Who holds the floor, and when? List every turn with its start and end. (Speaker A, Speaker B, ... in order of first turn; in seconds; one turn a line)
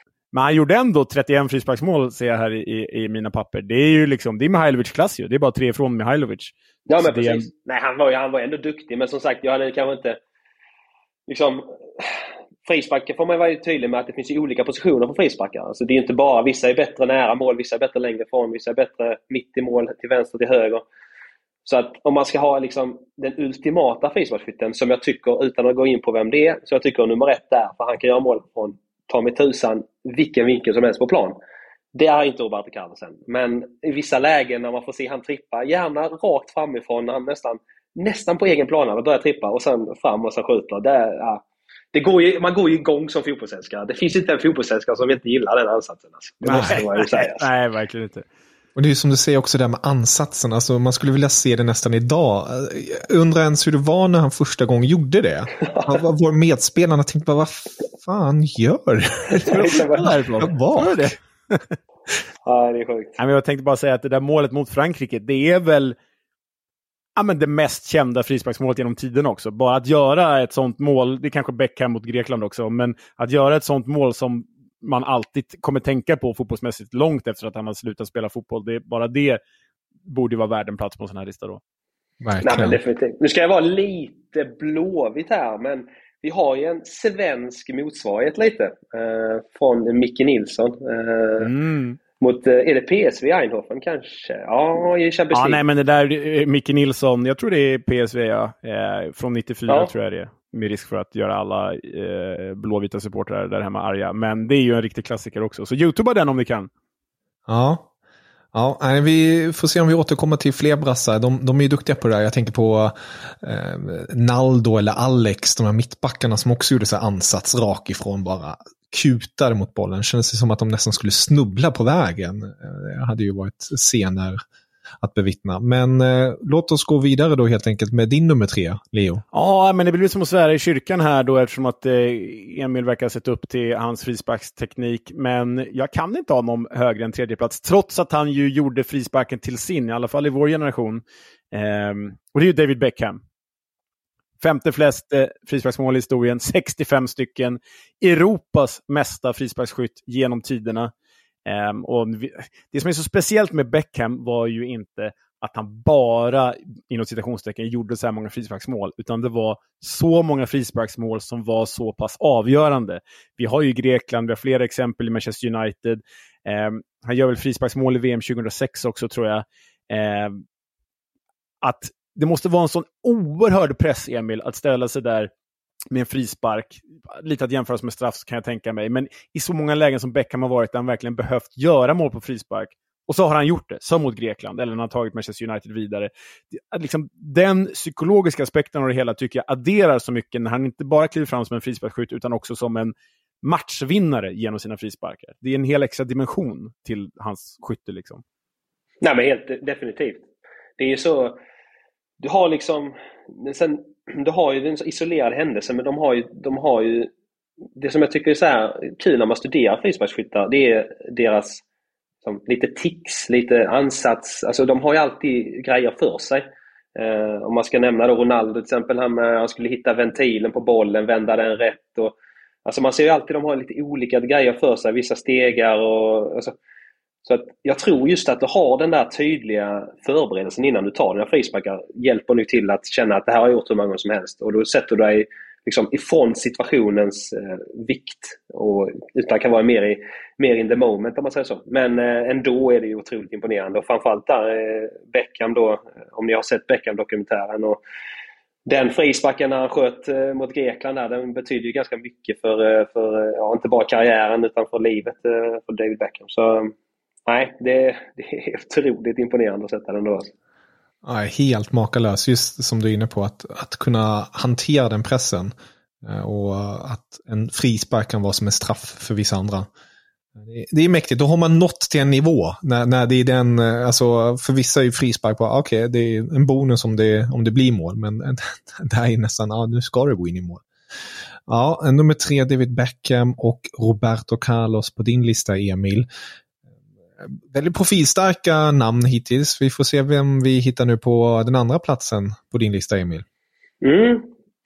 Speaker A: 0.3-7.5
Speaker B: 6.8-10.2
Speaker B: 11.3-20.8
Speaker B: 21.6-31.4
Speaker B: 31.9-41.4
Speaker B: 41.9-47.4
Speaker A: 46.4-48.2
Speaker C: 46.5-46.8
Speaker C: 48.8-61.1
Speaker B: 55.7-56.0
Speaker B: 59.4-60.1
Speaker A: 59.4-61.7
Speaker B: 62.5-63.2
Speaker A: 63.2-65.9
Speaker A: 67.2-79.4
Speaker A: 80.1-81.6
Speaker C: 82.2-82.8
Speaker B: 82.4-91.5
Speaker A: 91.4-92.0
Speaker B: 92.2-95.6
Speaker A: 95.3-106.7
Speaker C: 107.5-107.9
Speaker C: 108.5-124.4
Speaker C: 125.0-129.2
Speaker A: 129.3-143.2
Speaker A: 144.4-150.9
Speaker A: 151.4-170.4
Speaker A: 171.6-175.3
Speaker A: 175.9-198.2
Speaker B: 199.0-200.2
Speaker B: 200.8-201.4
Speaker B: 202.2-207.1
Speaker B: 207.8-211.6
Speaker B: 212.2-226.5
Speaker B: 227.2-247.8
Speaker B: 248.7-256.7
Speaker B: 257.3-260.3
Speaker C: 261.0-269.7
Speaker C: 270.4-280.6
Speaker C: 281.5-286.1
Speaker C: 287.2-293.2
Speaker B: 293.8-294.3